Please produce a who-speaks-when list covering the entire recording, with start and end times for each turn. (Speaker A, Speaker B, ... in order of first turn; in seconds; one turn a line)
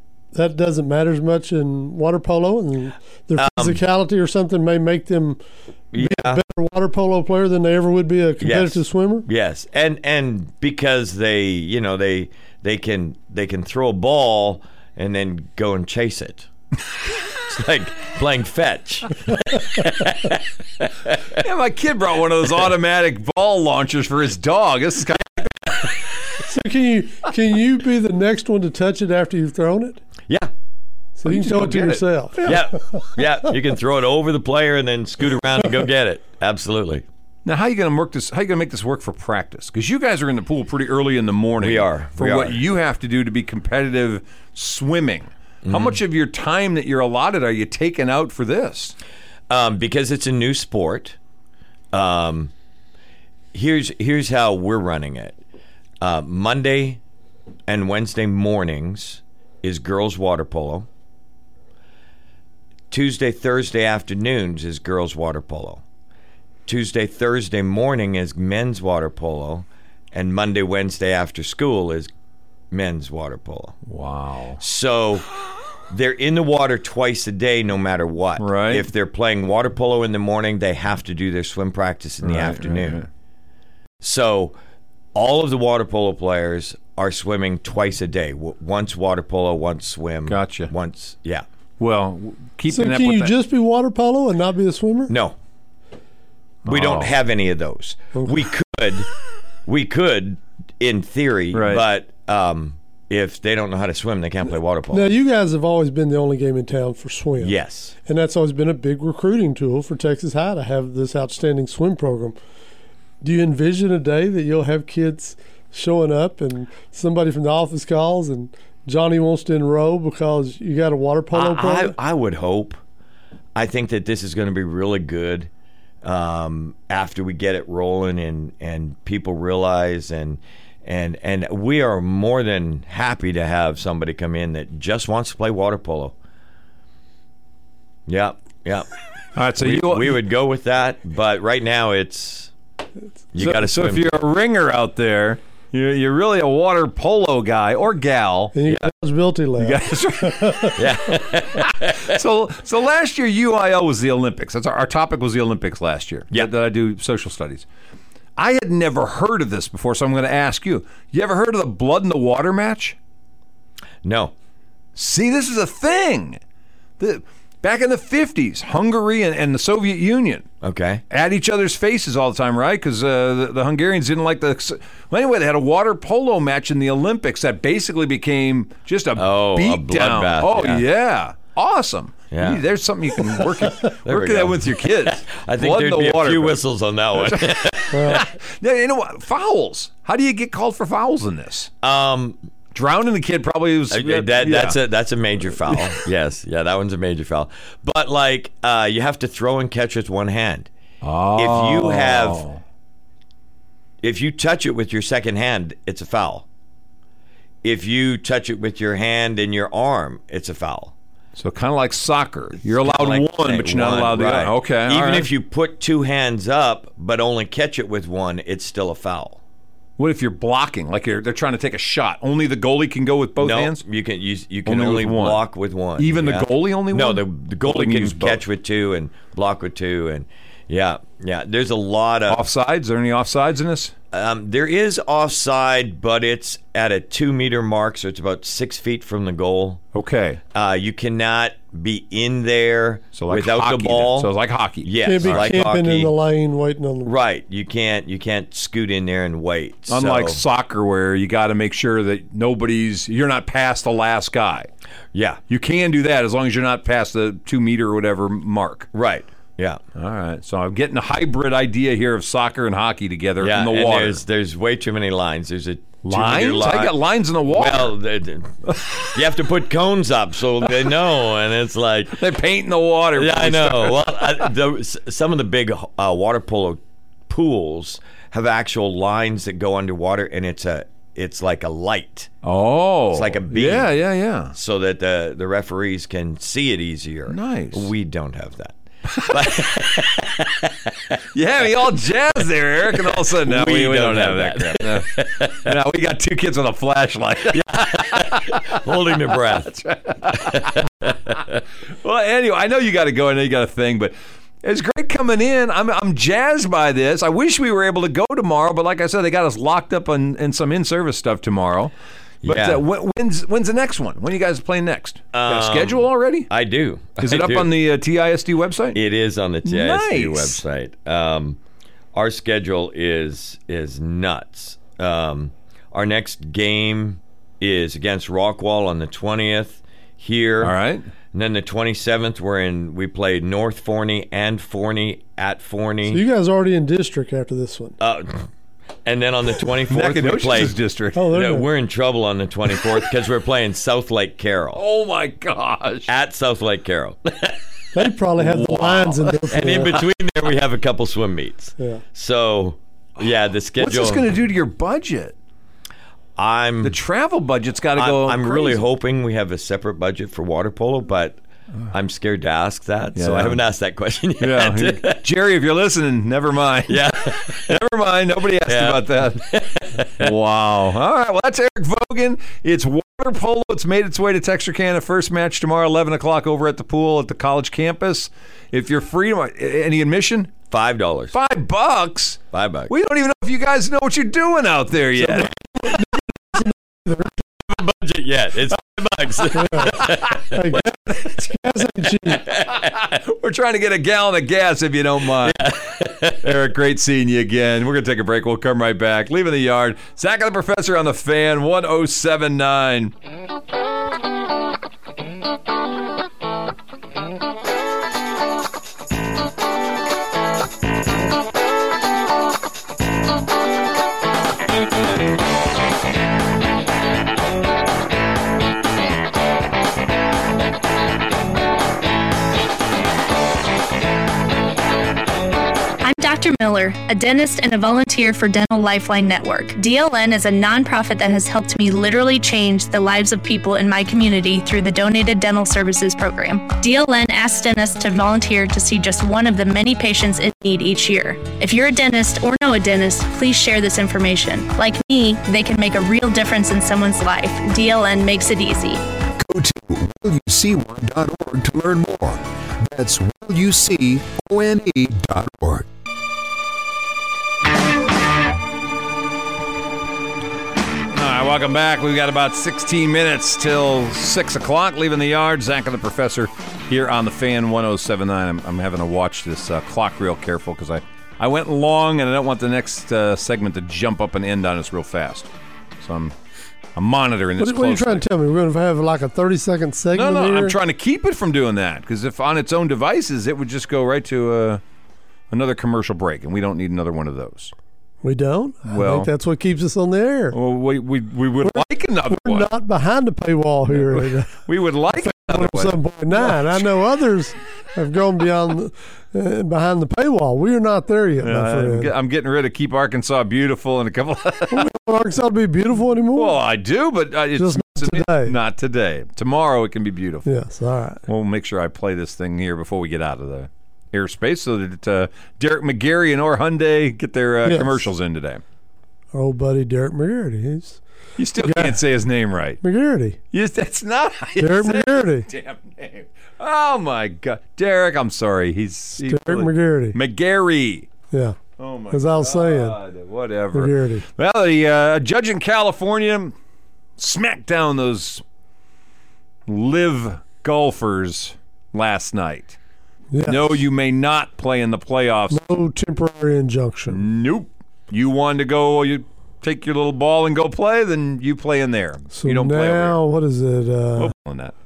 Speaker A: 0.3-5.4
Speaker B: 3.4-3.8
Speaker B: 5.9-6.4
Speaker A: 6.0-9.3
Speaker B: 8.4-16.5
Speaker B: 17.4-21.4
Speaker C: 21.4-25.8
Speaker A: 26.4-30.0
Speaker A: 31.2-32.5
Speaker C: 31.2-32.6
Speaker B: 32.4-37.0
Speaker C: 37.5-49.0
Speaker B: 41.6-42.6
Speaker B: 45.6-46.0
Speaker B: 49.5-51.2
Speaker B: 51.9-52.5
Speaker B: 53.5-55.4
Speaker B: 56.0-57.0
Speaker B: 57.7-60.9
Speaker B: 62.9-65.8
Speaker B: 66.7-72.1
Speaker B: 72.7-73.8
Speaker C: 73.9-74.6
Speaker B: 74.6-75.3
Speaker B: 75.9-83.0
Speaker C: 78.4-78.9
Speaker C: 82.2-83.1
Speaker B: 84.0-84.6
Speaker B: 85.2-91.4
Speaker C: 90.3-90.7
Speaker C: 91.8-93.3
Speaker A: 92.7-95.1
Speaker B: 95.1-95.4
Speaker C: 96.7-97.1
Speaker B: 96.7-99.1
Speaker B: 99.7-105.1
Speaker C: 101.5-101.8
Speaker A: 104.9-107.5
Speaker B: 107.4-107.9
Speaker A: 108.0-112.4
Speaker A: 113.2-122.0
Speaker B: 121.3-122.8
Speaker B: 123.5-125.5
Speaker B: 126.0-136.2
Speaker B: 138.1-138.9
Speaker C: 139.4-140.2
Speaker B: 139.6-142.5
Speaker B: 143.3-144.1
Speaker C: 143.4-148.5
Speaker A: 148.5-150.8
Speaker C: 149.6-150.8
Speaker B: 150.8-152.2
Speaker C: 151.7-157.7
Speaker C: 158.4-163.0
Speaker B: 164.0-164.3
Speaker C: 165.0-166.4
Speaker C: 167.0-170.5
Speaker B: 170.6-171.0
Speaker C: 171.1-186.6
Speaker B: 179.2-180.9
Speaker B: 182.3-182.6
Speaker B: 183.8-188.3
Speaker C: 187.2-191.7
Speaker A: 187.9-188.2
Speaker B: 191.8-192.4
Speaker C: 192.7-194.8
Speaker B: 193.9-200.7
Speaker C: 201.0-202.6
Speaker B: 201.4-202.5
Speaker B: 204.0-206.5
Speaker B: 207.6-210.9
Speaker C: 211.4-215.3
Speaker B: 212.7-219.4
Speaker C: 220.0-223.8
Speaker B: 223.4-232.4
Speaker C: 224.7-225.4
Speaker C: 226.0-228.4
Speaker C: 232.3-233.9
Speaker B: 234.1-239.8
Speaker C: 239.9-240.4
Speaker B: 240.5-246.1
Speaker C: 243.1-245.4
Speaker A: 245.0-247.1
Speaker B: 247.0-250.4
Speaker C: 249.9-254.7
Speaker B: 255.1-255.4
Speaker C: 255.5-258.9
Speaker B: 258.9-259.8
Speaker C: 259.9-264.2
Speaker B: 263.4-272.2
Speaker C: 266.0-267.9
Speaker C: 268.7-269.2
Speaker C: 272.2-274.5
Speaker B: 273.1-282.3
Speaker C: 282.4-284.6
Speaker B: 283.1-283.9
Speaker B: 284.5-291.2
Speaker C: 287.3-287.9
Speaker C: 289.1-289.7
Speaker C: 291.3-298.8
Speaker B: 293.0-295.7
Speaker B: 297.5-301.6
Speaker C: 299.8-301.1
Speaker C: 302.0-311.9
Speaker B: 312.4-312.8
Speaker C: 312.4-316.5
Speaker B: 315.3-317.7
Speaker C: 317.2-319.0
Speaker B: 318.9-321.6
Speaker C: 319.6-320.6
Speaker B: 322.1-330.8
Speaker C: 330.6-331.1
Speaker B: 331.3-336.2
Speaker A: 336.1-338.0
Speaker B: 338.0-338.5
Speaker B: 339.1-340.8
Speaker C: 339.9-341.3
Speaker A: 341.1-341.7
Speaker B: 341.3-344.8
Speaker C: 344.8-346.1
Speaker B: 346.1-347.6
Speaker A: 347.9-350.0
Speaker C: 348.4-349.4
Speaker B: 349.5-354.3
Speaker C: 353.8-355.4
Speaker B: 356.4-357.0
Speaker C: 356.8-358.8
Speaker B: 358.0-365.2
Speaker C: 363.2-363.6
Speaker C: 364.4-380.6
Speaker B: 366.9-367.8
Speaker B: 368.7-370.3
Speaker B: 380.7-381.4
Speaker C: 381.3-385.5
Speaker B: 382.5-382.9
Speaker A: 385.2-387.3
Speaker B: 387.7-390.8
Speaker A: 389.5-392.5
Speaker C: 390.0-390.3
Speaker B: 392.4-393.1
Speaker C: 392.5-395.7
Speaker B: 395.4-396.5
Speaker C: 396.4-403.1
Speaker D: 426.0-449.0
Speaker E: 449.4-455.9
Speaker C: 461.1-476.3
Speaker C: 477.0-478.2
Speaker A: 477.6-480.8
Speaker C: 480.1-484.8
Speaker C: 485.5-487.7
Speaker A: 488.2-490.6
Speaker C: 488.9-489.3
Speaker C: 490.5-492.7
Speaker A: 491.6-494.5
Speaker C: 493.9-496.9
Speaker A: 495.2-502.1
Speaker C: 501.4-504.9
Speaker A: 504.7-506.6
Speaker C: 506.4-510.5
Speaker A: 507.6-508.6
Speaker A: 510.4-511.2
Speaker C: 511.3-518.6
Speaker A: 517.6-518.0
Speaker A: 519.3-521.0
Speaker C: 521.4-522.8
Speaker A: 521.6-522.0
Speaker A: 522.8-523.4
Speaker C: 523.5-531.1
Speaker A: 524.6-525.5
Speaker A: 529.2-530.2
Speaker A: 531.3-531.6
Speaker C: 531.8-536.5
Speaker A: 532.1-533.0
Speaker A: 533.7-534.3
Speaker C: 537.2-538.4
Speaker C: 539.7-542.8
Speaker A: 543.3-543.8
Speaker C: 543.5-545.6
Speaker A: 545.5-547.2
Speaker C: 547.1-553.2
Speaker A: 552.3-554.3
Speaker C: 554.2-554.7